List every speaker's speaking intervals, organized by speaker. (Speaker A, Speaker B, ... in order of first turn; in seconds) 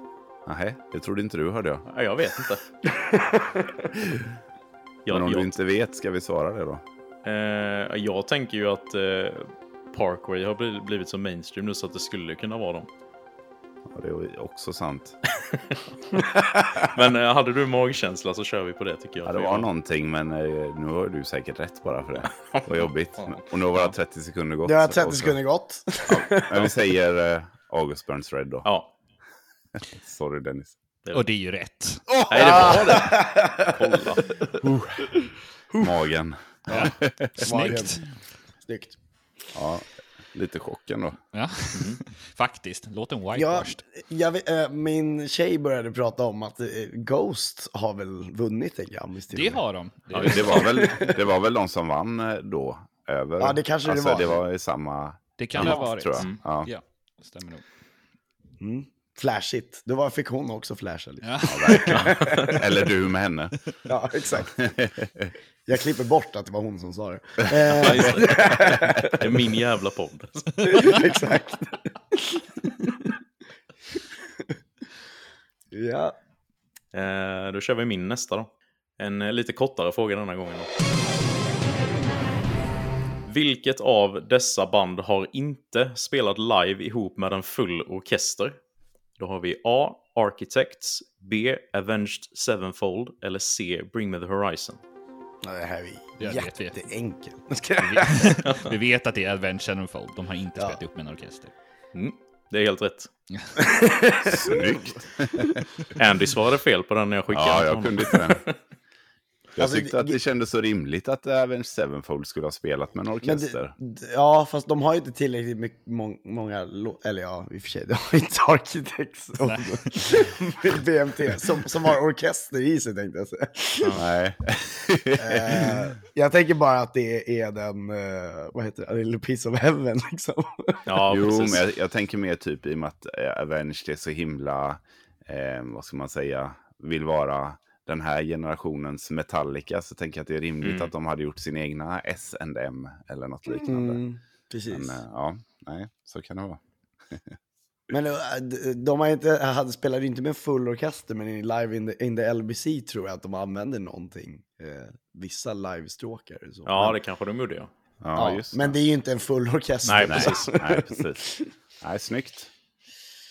Speaker A: 0.5-1.8, 5.1-6.8, 13.9-15.2, 19.2-25.4, 26.1-28.7, 30.0-30.8, 34.6-35.1, 35.8-37.4, 39.5-41.2, 50.2-56.7, 61.4-63.5, 64.4-65.3, 104.2-105.6, 107.3-108.4, 109.6-113.7, 124.0-125.8, 131.1-144.0, 144.7-146.6, 158.0-158.8, 160.1-161.2, 161.8-162.5
Speaker B: 1.9-2.7, 5.0-5.5, 7.2-12.9, 15.5-15.8, 16.8-19.7, 22.3-23.4, 28.6-28.9, 32.3-34.3, 41.7-42.0, 50.1-50.6, 55.6-56.4, 62.2-62.5, 67.7-71.1, 76.9-80.7, 83.2-88.6, 89.2-94.8, 101.9-103.1, 106.0-108.5, 130.9-131.6, 140.6-140.9, 156.7-157.7, 159.8-160.5
Speaker C: 16.5-16.8, 24.6-26.7, 32.3-33.8, 37.4-38.0, 38.6-39.0, 43.3-49.6, 50.6-51.1, 53.4-54.4, 58.6-62.6, 63.9-64.7, 65.7-69.3, 70.6-73.1, 75.7-76.1, 95.4-98.4, 103.6-104.6, 109.6-110.2, 113.2-124.0, 125.2-130.8, 143.5-145.0, 147.9-157.0, 158.1-161.4
Speaker D: 31.1-32.0, 36.7-38.0, 41.3-43.8, 49.3-50.9, 55.4-57.6, 61.2-62.0, 96.2-96.8, 97.8-101.5, 119.4-119.7